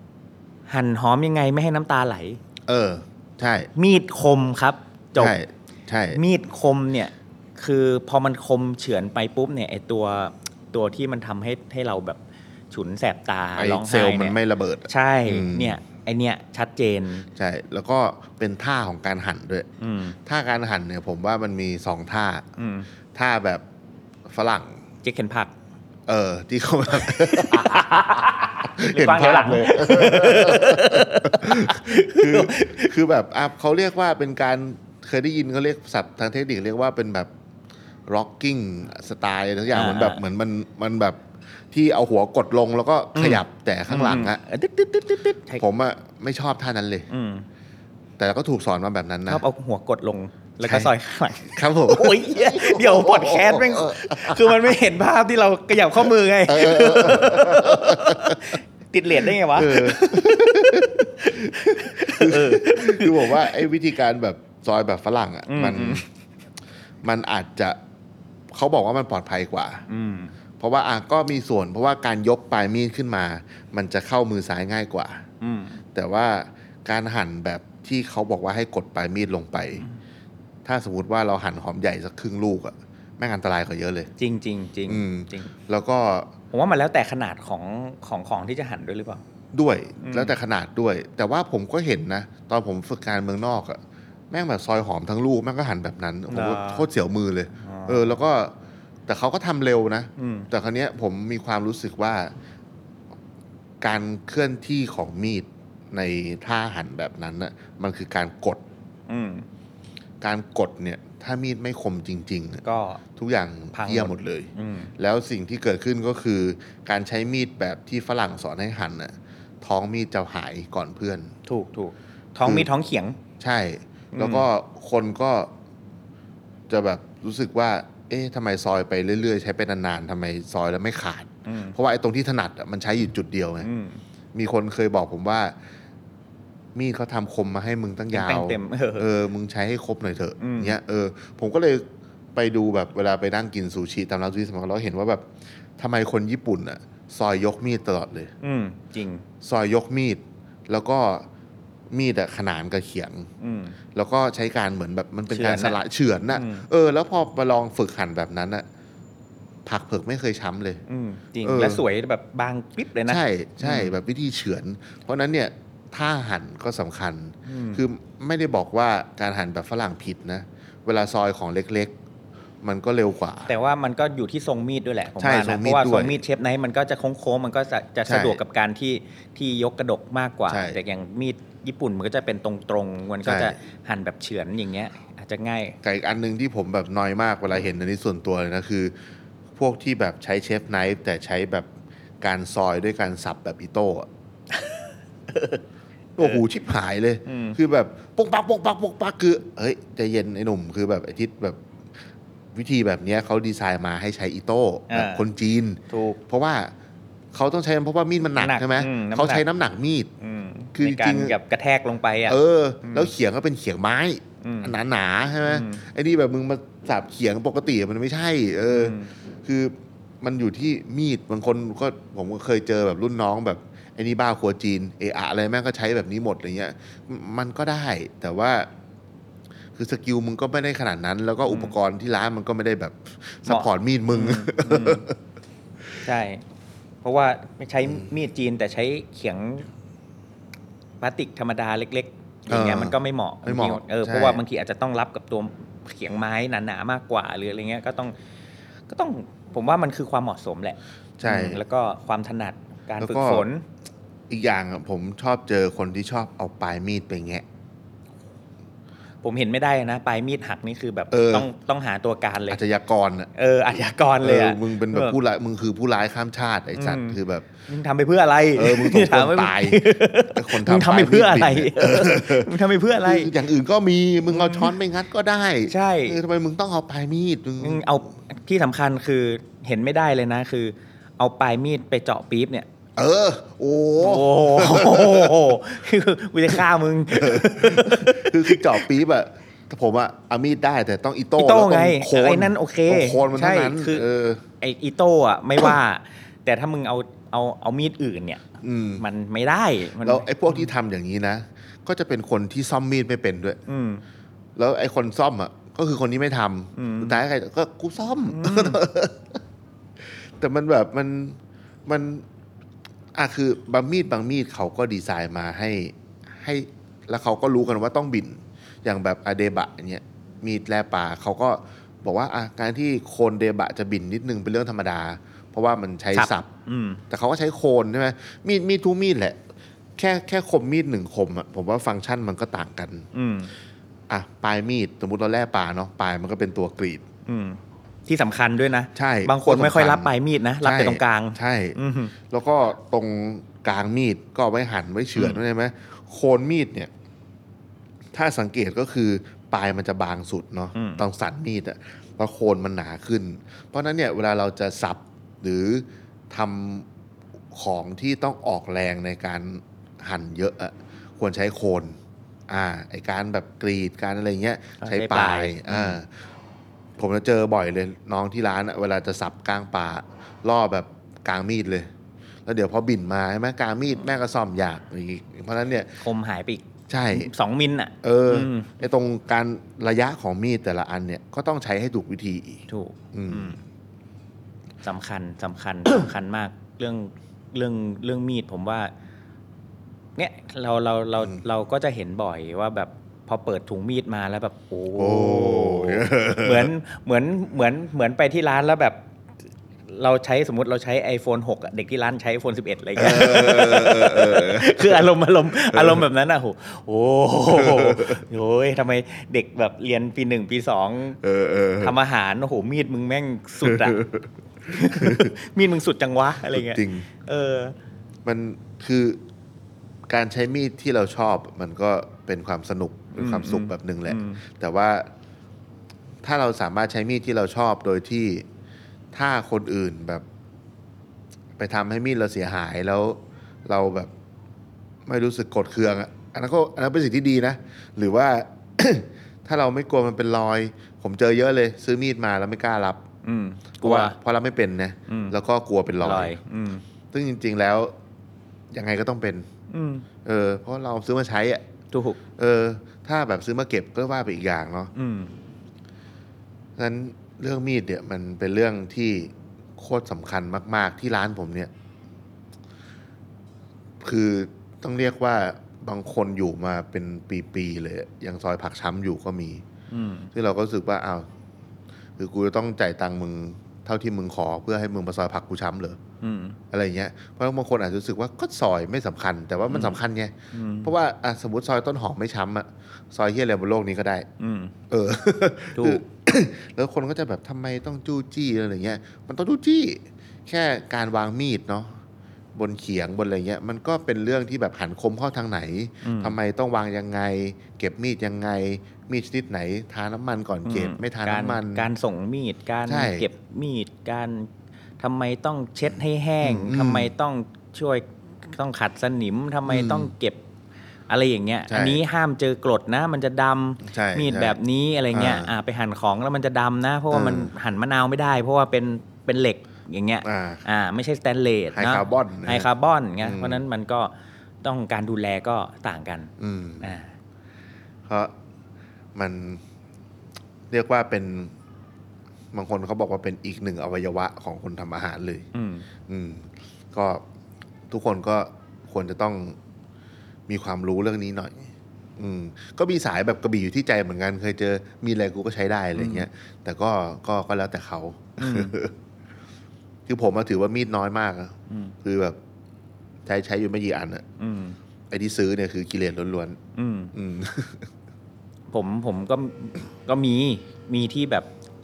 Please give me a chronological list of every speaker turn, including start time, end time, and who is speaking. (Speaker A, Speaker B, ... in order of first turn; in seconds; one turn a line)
Speaker A: 0.7-2.4
Speaker B: 2.7-3.7
Speaker A: 3.8-5.4
Speaker B: 5.2-6.2
Speaker A: 6.1-12.2
Speaker A: 12.7-14.4
Speaker B: 13.6-15.8
Speaker A: 14.9-17.3
Speaker B: 17.4-19.7
Speaker A: 19.8-20.2
Speaker B: 20.2-22.5
Speaker A: 22.6-22.9
Speaker B: 23.1-23.6
Speaker B: 24.2-24.8
Speaker A: 25.0-25.5
Speaker B: 26.1-37.3
Speaker A: 27.0-32.9
Speaker B: 38.1-44.4
Speaker A: 39.7-40.2
Speaker A: 43.1-45.6
Speaker B: 45.6-47.1
Speaker A: 47.1-47.5
Speaker B: 48.2-49.4
Speaker A: 49.3-63.6
Speaker B: 50.6-50.9
Speaker B: 51.5-54.7
Speaker B: 56.5-58.6
Speaker B: 59.2-66.0
Speaker A: 65.5-66.0
Speaker B: 67.0-67.8
Speaker B: 68.5-69.9
Speaker A: 69.9-70.3
Speaker B: 70.6-75.2
Speaker A: 75.4-75.8
Speaker B: 75.9-79.8
Speaker B: 80.7-84.1
Speaker A: 84.2-85.5
Speaker B: 84.9-86.3
Speaker A: 86.5-89.2
Speaker B: 89.5-93.8
Speaker A: 90.0-90.3
Speaker B: 94.3-98.5
Speaker A: 96.3-96.9
Speaker A: 97.6-98.2
Speaker B: 99.1-102.3
Speaker A: 100.2-100.5
Speaker B: 103.8-108.6
Speaker A: 109.1-109.5
Speaker B: 110.2-112.6
Speaker A: 112.6-113.0
Speaker B: 113.2-121.3
Speaker A: 113.7-114.9
Speaker A: 121.5-123.2
Speaker B: 122.4-122.7
Speaker B: 123.4-125.5
Speaker A: 124.1-124.5
Speaker B: 126.7-133.7
Speaker A: 131.5-131.8
Speaker A: 133.6-134.0
Speaker B: 134.3-135.6
Speaker B: 136.8-148.3
Speaker A: 138.1-139.1
Speaker A: 140.4-140.8
Speaker A: 148.4-149.3
Speaker B: 149.4-151.3
Speaker B: 151.9-153.3
Speaker A: 153.4-153.8
Speaker B: 153.9-158.7
Speaker A: 155.3-155.8
Speaker A: 156.3-156.7
Speaker B: 159.7-160.8
Speaker A: 160.9-164.0
Speaker B: 161.4-161.8
Speaker B: 163.1-171.9
Speaker A: 167.5-167.8
Speaker B: 172.6-173.5
Speaker A: 173.5-185.8
Speaker B: 175.2-176.2
Speaker B: 178.1-178.4
Speaker B: 180.5-180.8
Speaker B: 183.2-183.6
Speaker B: 185.8-188.9
Speaker B: 189.6-191.7
Speaker B: 192.2-194.1
Speaker A: 194.5-195.6
Speaker B: 196.2-201.6
Speaker A: 197.3-197.6
Speaker B: 202.5-206.7
Speaker A: 204.9-205.2
Speaker A: 205.9-206.2
Speaker B: 207.3-210.1
Speaker A: 208.4-209.4
Speaker A: 210.2-213.1
Speaker B: 210.8-211.4
Speaker B: 212.3-228.7
Speaker A: 214.4-214.8
Speaker A: 215.4-215.8
Speaker A: 218.7-219.1
Speaker B: 229.8-235.2
Speaker A: 231.5-231.8
Speaker A: 233.5-235.1
Speaker A: 236.0-236.4
Speaker A: 237.0-239.7
Speaker B: 237.9-238.1
Speaker A: 241.0-248.2
Speaker B: 242.5-244.4
Speaker A: 248.9-253.7
Speaker B: 251.2-251.6
Speaker B: 253.0-253.5
Speaker B: 254.3-257.4
Speaker A: 259.2-262.6
Speaker B: 261.1-261.5
Speaker B: 262.5-263.3
Speaker A: 263.4-265.2
Speaker B: 264.2-267.5
Speaker A: 266.8-273.3
Speaker B: 268.6-277.9
Speaker A: 274.3-274.7
Speaker A: 275.7-276.2
Speaker A: 277.6-282.7
Speaker B: 283.0-285.6
Speaker A: 284.0-288.9
Speaker B: 286.5-294.4
Speaker A: 291.4-294.1
Speaker A: 294.6-298.5
Speaker B: 298.6-299.1
Speaker A: 299.0-300.7
Speaker B: 300.0-303.6
Speaker A: 303.7-304.0
Speaker B: 304.6-309.4
Speaker A: 306.8-307.2
Speaker A: 308.3-308.8
Speaker B: 310.0-312.3
Speaker B: 313.1-326.5
Speaker A: 326.1-327.0
Speaker B: 327.1-329.4
Speaker B: 330.0-333.1
Speaker A: 333.1-333.5
Speaker B: 334.1-337.0
Speaker A: 337.3-342.1
Speaker B: 338.9-346.9
Speaker B: 348.1-356.9
Speaker A: 350.8-351.0
Speaker B: 357.5-366.2
Speaker A: 364.8-366.0
Speaker B: 367.0-371.9
Speaker B: 372.5-376.0
Speaker A: 376.0-378.7
Speaker B: 376.9-377.3
Speaker B: 378.0-383.6
Speaker A: 382.7-383.6
Speaker A: 384.8-388.9
Speaker A: 390.2-399.0
Speaker B: 395.0-396.7
Speaker A: 399.9-411.2
Speaker B: 403.0-406.1
Speaker B: 407.5-408.2
Speaker B: 411.2-412.0
Speaker A: 411.8-414.0
Speaker B: 413.6-415.3
Speaker A: 414.7-417.8
Speaker B: 416.5-417.1
Speaker B: 418.2-419.2
Speaker B: 420.1-425.1
Speaker A: 423.1-424.4
Speaker B: 426.2-428.5
Speaker B: 429.1-430.2
Speaker B: 431.6-434.1
Speaker B: 435.1-443.1
Speaker A: 443.2-444.2
Speaker B: 443.8-446.4
Speaker A: 445.1-445.4
Speaker A: 446.0-446.8
Speaker B: 447.1-447.9
Speaker B: 448.7-449.5
Speaker A: 449.7-450.1
Speaker B: 450.2-451.6
Speaker A: 451.9-452.2
Speaker B: 452.4-454.9
Speaker A: 454.9-455.3
Speaker B: 456.8-461.7
Speaker B: 464.0-469.6
Speaker A: 469.9-470.3
Speaker B: 470.3-471.3
Speaker B: 472.2-476.0
Speaker A: 476.2-476.6
Speaker B: 476.7-484.3
Speaker A: 479.7-480.0
Speaker A: 480.5-480.9
Speaker A: 484.4-484.7
Speaker B: 484.9-492.0
Speaker A: 485.8-486.0
Speaker B: 492.5-501.9
Speaker A: 496.0-496.4
Speaker A: 500.6-510.4
Speaker B: 502.9-503.3
Speaker B: 506.4-507.1
Speaker B: 509.7-510.1
Speaker A: 511.1-524.1
Speaker B: 511.7-512.0
Speaker B: 513.8-514.6
Speaker B: 515.1-515.5
Speaker B: 517.1-517.5
Speaker B: 520.2-520.6
Speaker B: 521.8-522.7
Speaker B: 523.2-523.6
Speaker A: 524.6-527.1
Speaker B: 526.4-527.0
Speaker B: 528.1-528.3
Speaker B: 529.1-529.6
Speaker B: 530.7-531.5
Speaker B: 532.5-535.5
Speaker A: 535.5-535.9
Speaker B: 536.1-537.2
Speaker B: 537.9-539.6
Speaker B: 540.5-548.9
Speaker A: 546.0-546.3
Speaker A: 548.4-548.8
Speaker B: 550.1-552.4
Speaker A: 551.7-552.0
Speaker B: 553.3-554.2
Speaker A: 554.4-554.8
Speaker B: 555.1-556.6
Speaker A: 556.8-557.1
Speaker B: 557.1-557.9
Speaker A: 558.7-561.5